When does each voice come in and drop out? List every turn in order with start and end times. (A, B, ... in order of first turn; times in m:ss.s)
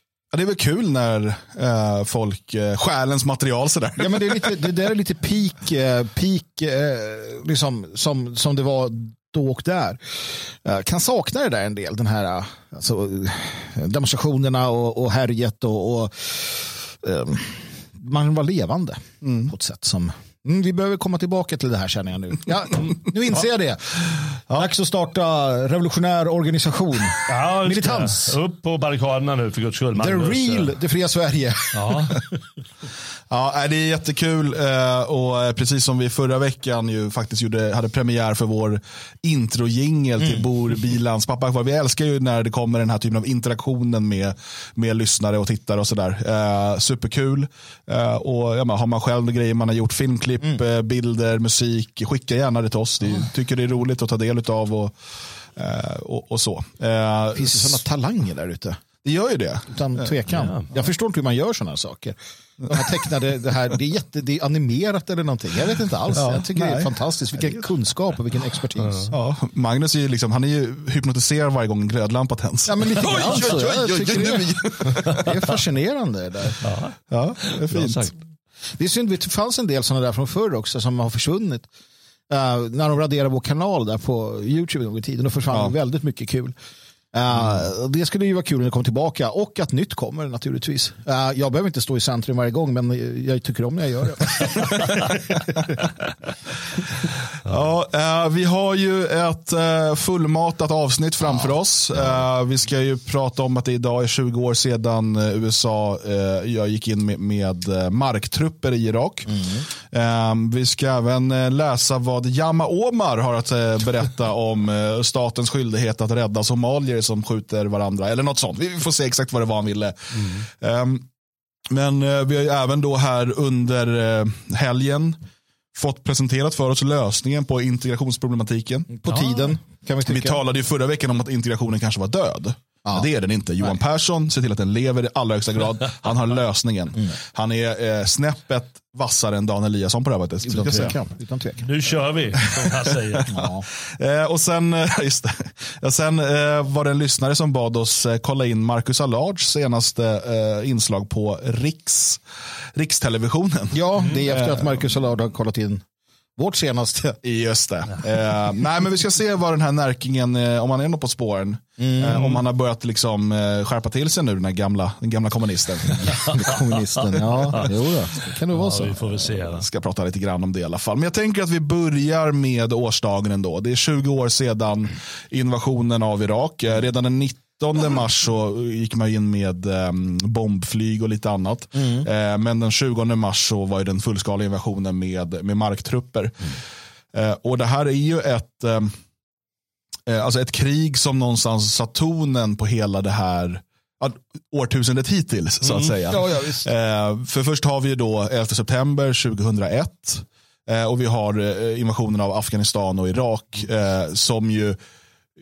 0:00.3-0:04.6 A
0:04.0-0:28.4 B
0:19.2-0:19.5 A
0:27.3-0:30.7 C
0:30.0-0:32.2 B
0:31.7-0:32.2 C
0:33.3-0:55.0 A
0:40.2-0:40.4 B
0:55.6-0:57.8 A
0:57.4-0:58.8 B
0:59.0-1:00.2 A
0:59.7-1:02.2 B
1:00.3-1:00.6 C
1:02.7-1:09.1 B
1:06.2-1:07.6 A
1:09.1-1:15.3 A
1:12.7-1:16.6 B
1:16.6-1:17.0 C
1:17.1-1:18.1 A
1:17.7-1:18.0 C
1:18.8-1:21.7 B
1:22.3-1:26.6 B
1:27.1-1:35.4 B
1:37.4-2:01.1 A
2:01.7-2:05.2 A
2:05.8-2:08.9 A
2:08.9-2:10.4 B
2:09.1-2:09.4 C
2:10.0-2:21.0 A
2:20.4-2:21.7 B
2:21.6-2:23.3 C
2:23.3-2:32.2 A
2:23.3-2:23.6 B
2:32.8-2:34.8 A
2:33.7-2:35.8 B
2:36.4-2:37.2 B
2:37.2-2:46.1 A
2:41.8-2:42.4 B
2:45.9-2:49.5 B
2:47.0-2:47.7 C
2:48.5-2:49.6 C
2:49.5-3:06.4 A
3:01.8-3:02.0 B
3:07.1-3:09.0 A
3:10.1-3:24.8 A
3:16.1-3:16.7 B